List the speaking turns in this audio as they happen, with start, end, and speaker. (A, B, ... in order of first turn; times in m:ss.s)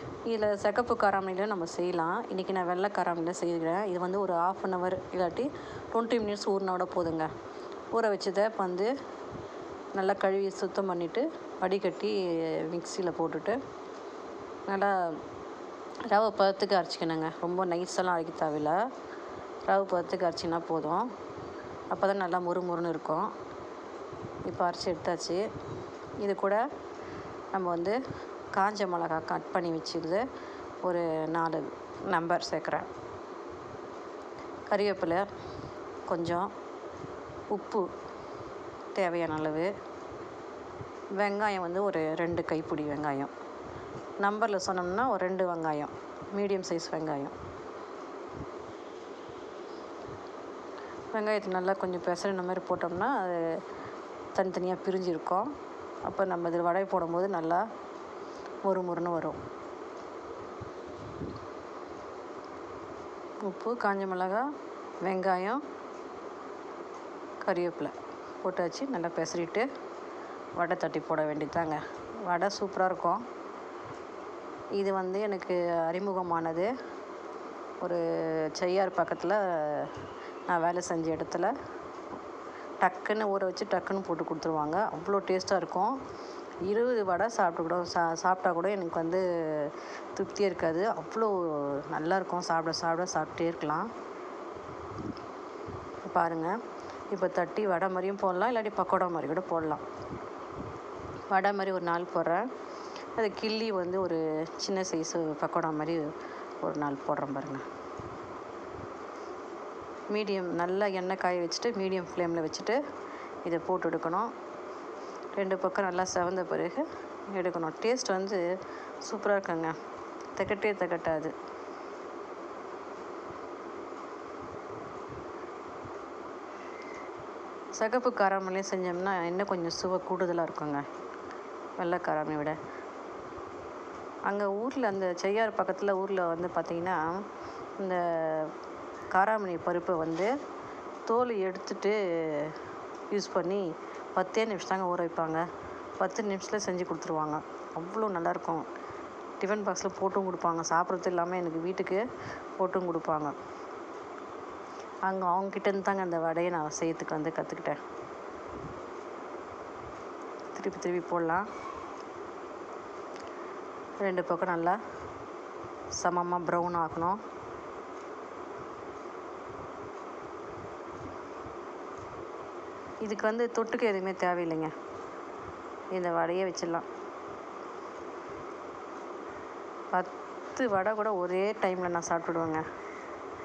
0:00.3-0:07.3 A
0:07.9-0:08.9 A
0:10.0-0:13.6 A
0:14.7-0:15.2 A
0:16.1-0:18.8 A
0:19.7-0:21.1 A
0:21.9-0:23.3 A
0:24.4-0:25.4 A
0:26.2-0:26.6 A
0:27.5-0:28.0 A
0:28.5-0:30.2 A
0:30.8-0:32.9 A
0:34.7-0:35.3 A
0:36.1-0:36.5 A
0:37.5-0:37.9 A
0:38.9-0:39.7 A
0:41.2-0:43.3 A
0:44.2-0:47.4 A
0:51.1-0:53.6 A
0:54.4-0:55.5 A
0:56.0-0:57.6 A
0:58.6-0:59.4 A
1:03.4-1:04.5 A
1:05.0-1:05.6 A
1:07.4-1:09.7 A
1:10.6-1:13.2 A
1:14.8-1:16.7 A
1:17.8-1:20.0 A
1:20.5-1:21.5 A
1:22.8-1:26.0 A
1:26.6-1:33.9 A
1:36.0-1:36.6 A
1:37.1-1:39.8 A
1:41.3-1:42.5 A
1:43.2-1:46.1 A
1:46.6-1:47.6 A
1:50.1-1:52.8 A
1:53.4-1:54.3 A
1:55.4-1:58.4 A
1:59.0-1:59.8 A
2:00.4-2:01.3 A
2:07.8-2:10.9 A
2:11.8-2:12.6 A
2:14.3-2:17.2 A
2:17.8-2:18.5 A
2:19.1-2:20.3 A
2:21.1-2:22.6 A
2:23.1-2:25.4 A
2:26.0-2:28.7 A
2:29.4-2:32.0 A
2:32.6-2:33.4 A
2:35.1-2:37.8 A
2:40.5-2:41.5 A
2:44.0-2:44.8 A
2:46.0-2:47.2 A
2:53.0-2:54.7 A
2:55.9-2:56.9 A
2:59.9-3:02.6 A